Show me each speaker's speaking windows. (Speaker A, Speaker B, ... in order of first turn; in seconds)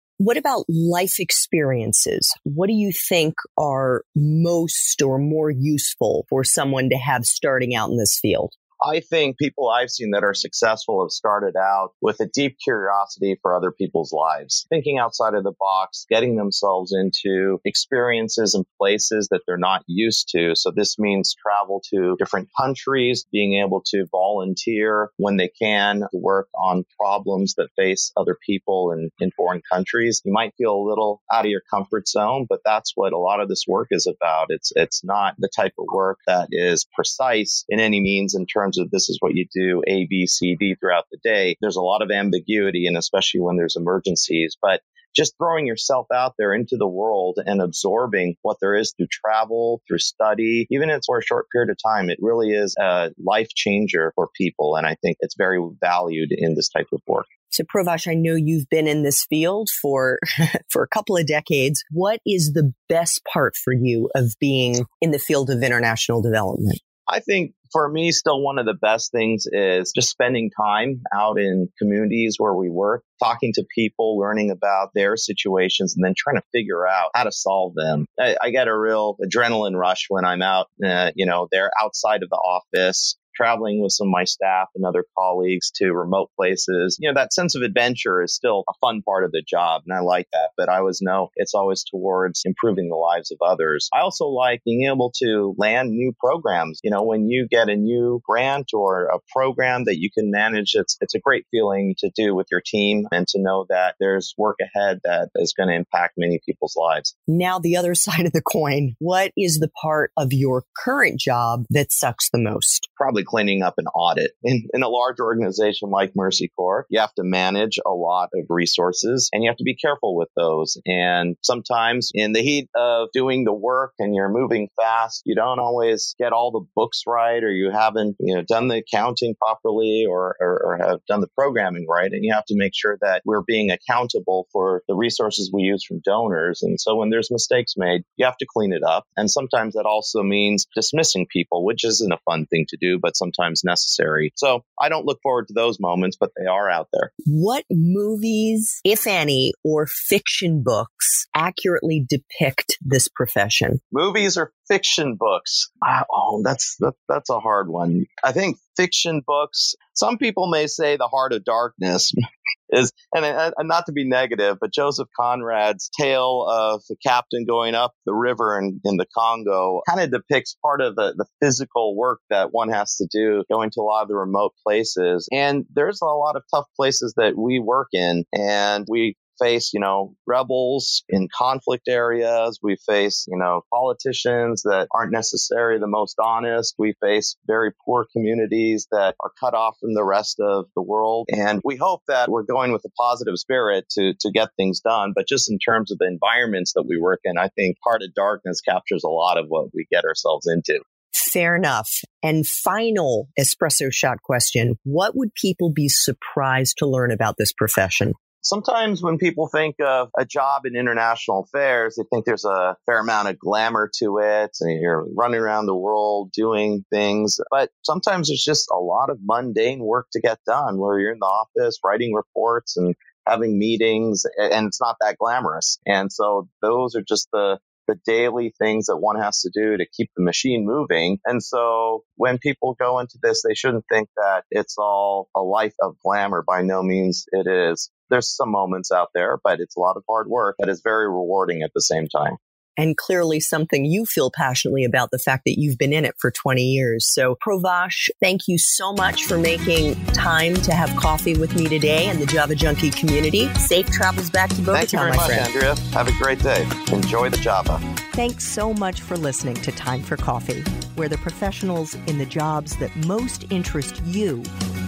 Speaker A: 0.2-8.5, 57.5-66.8, 107.3-112.9, 147.3-153.8, 201.1-208.2, 242.8-255.5, 258.1-264.5
Speaker B: 8.8-57.3, 67.1-107.1, 113.0-147.1, 153.9-162.1, 162.7-200.8, 208.4-242.4, 254.7-257.8